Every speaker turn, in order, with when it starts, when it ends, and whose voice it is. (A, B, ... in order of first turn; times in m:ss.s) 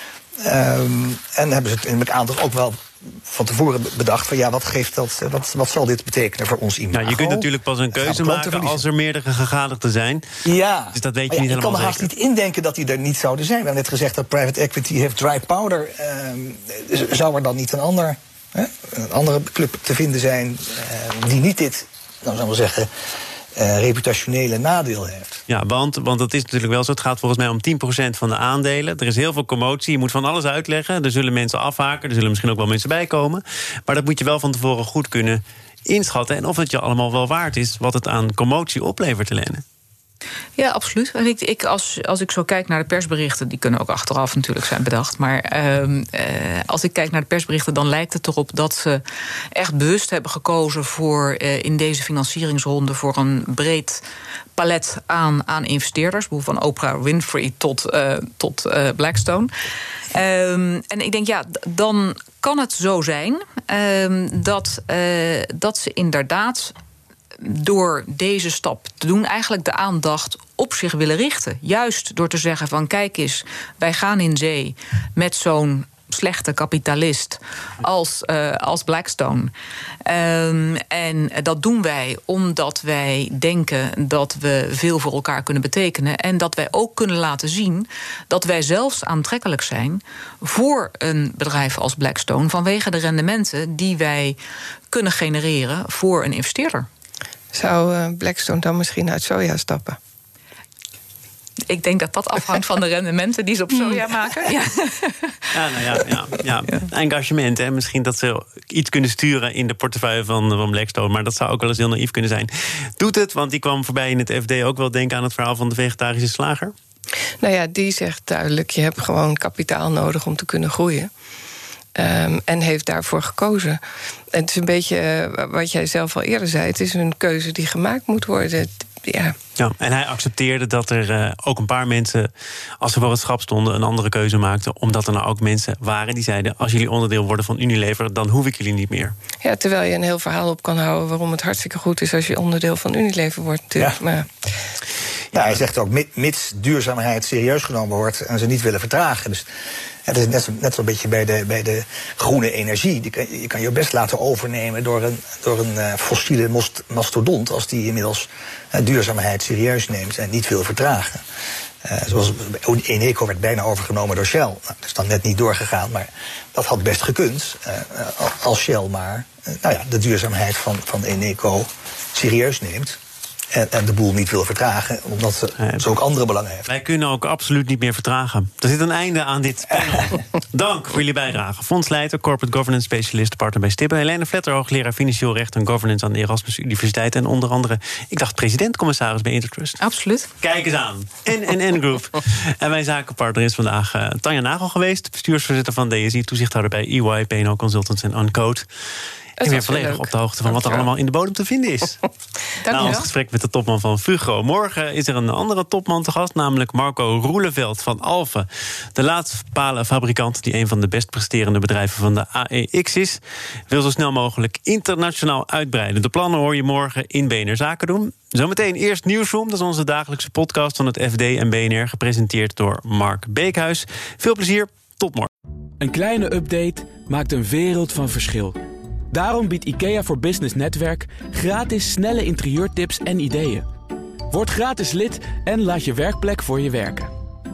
0:00.4-0:08.8 A
0:06.9-0:10.2 B
0:10.4-0:22.9 A
0:10.9-0:12.1 B
0:23.5-0:25.4 A
0:25.5-0:39.6 B
0:40.6-0:54.0 C
0:54.6-0:59.5 C
1:00.1-1:06.7 C
1:07.4-1:19.5 C
1:20.0-1:34.4 C
1:34.9-1:36.9 C
1:37.5-1:40.0 D
1:41.6-1:45.5 C
1:45.5-1:56.7 B
1:57.4-2:01.1 D
2:02.0-2:03.8 D
2:04.3-2:09.3 D
2:09.6-2:12.3 B
2:12.8-2:19.1 B
2:19.4-2:24.3 D
2:25.3-2:29.5 A
2:30.0-2:41.2 A
2:41.8-2:53.0 A
2:53.5-2:56.7 A
2:56.7-3:09.8 B
3:09.8-3:10.3 C
3:10.4-3:18.7 B
3:19.4-3:20.8 D
3:19.4-3:22.0 B
3:22.6-3:23.1 C
3:22.7-3:45.3 B
3:45.8-3:48.6 E
3:49.1-3:53.6 E
3:54.3-3:57.1 E